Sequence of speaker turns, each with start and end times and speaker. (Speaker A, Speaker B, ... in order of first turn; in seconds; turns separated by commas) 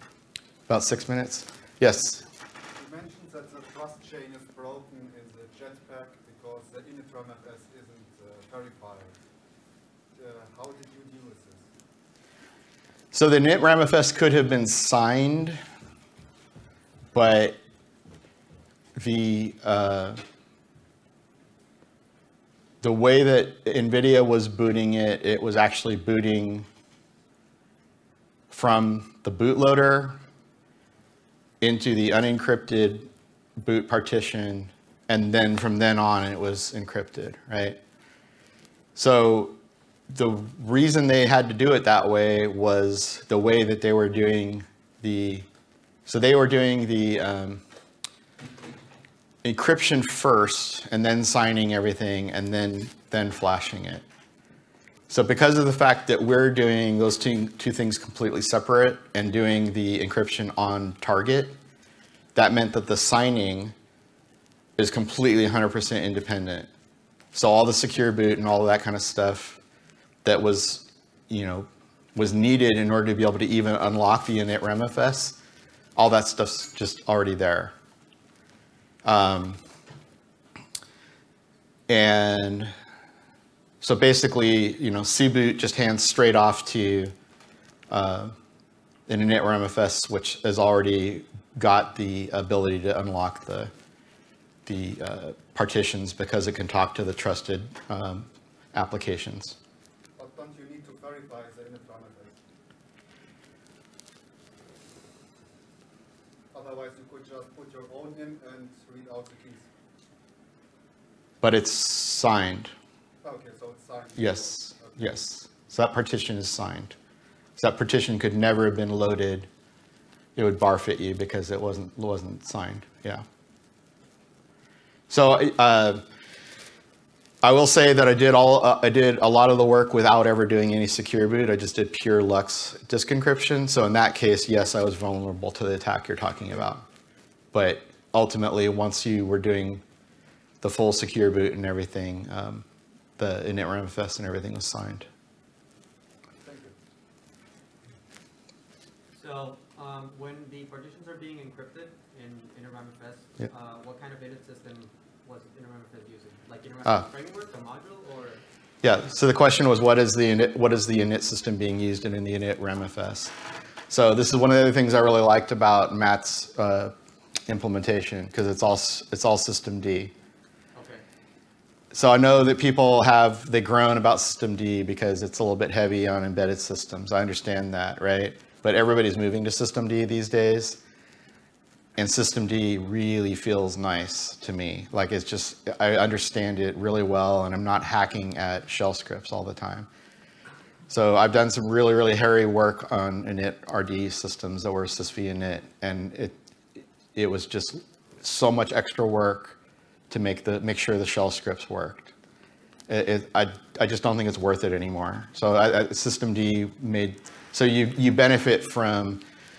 Speaker A: 0.7-2.2, Speaker B: 2.8-9.1, Speaker B: 10.1-11.7, Speaker A: 13.1-15.6, Speaker A: 17.1-17.6, Speaker A: 18.9-20.2, Speaker A: 22.8-26.7, Speaker A: 28.5-30.2, Speaker A: 31.6-33.1, Speaker A: 33.6-37.8, Speaker A: 39.0-39.5, Speaker A: 40.1-45.5, Speaker A: 46.0-47.6, Speaker A: 49.4-54.0, Speaker A: 55.1-61.5, Speaker A: 62.3-63.7, Speaker A: 64.8-66.7, Speaker A: 67.3-69.6, Speaker A: 70.2-75.4, Speaker A: 76.0-77.7, Speaker A: 79.0-79.6, Speaker A: 81.9-82.7, Speaker A: 83.8-87.1, Speaker A: 87.9-88.3, Speaker A: 89.1-93.7, Speaker A: 94.7-99.6, Speaker B: 100.2-102.4, Speaker B: 106.5-109.7, Speaker A: 111.4-112.7, Speaker B: 113.2-115.1, Speaker A: 114.2-116.9, Speaker A: 117.6-119.5, Speaker A: 120.3-123.2, Speaker A: 125.1-126.0, Speaker A: 127.4-136.8, Speaker A: 137.5-139.8, Speaker A: 140.6-142.6, Speaker A: 143.2-145.1, Speaker B: 146.4-146.7, Speaker C: 149.2-158.4, Speaker A: 158.8-163.3, Speaker A: 163.9-166.9, Speaker A: 167.5-170.1, Speaker C: 170.7-171.0, Speaker A: 171.9-180.8, Speaker A: 182.0-189.9, Speaker A: 190.9-196.3, Speaker A: 197.1-199.6, Speaker A: 200.1-202.1, Speaker A: 202.9-209.2